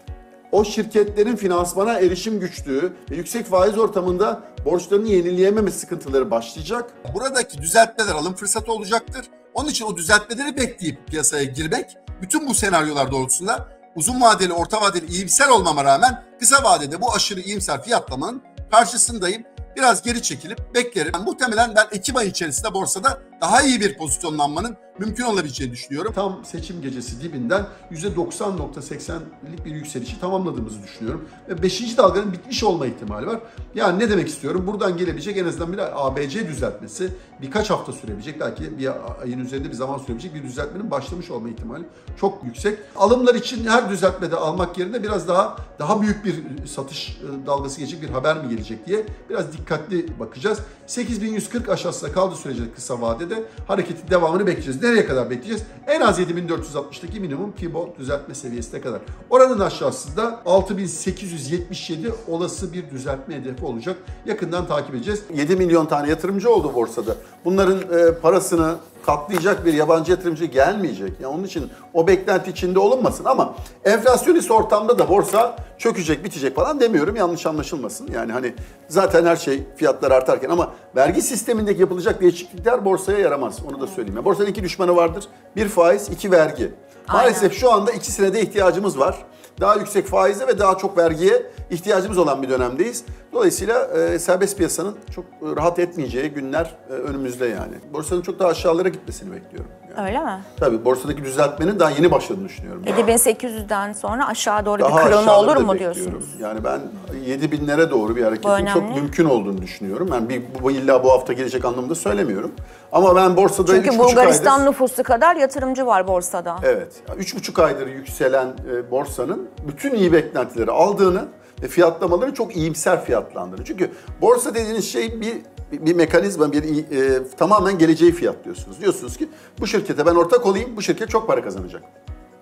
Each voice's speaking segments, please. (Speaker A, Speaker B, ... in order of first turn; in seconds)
Speaker A: 0.5-100.0, 100.6-103.1, 104.8-114.7, 116.6-131.9
Speaker B: 87.1-87.5, 100.0-100.5, 102.8-106.4, 108.4-109.0, 113.7-116.7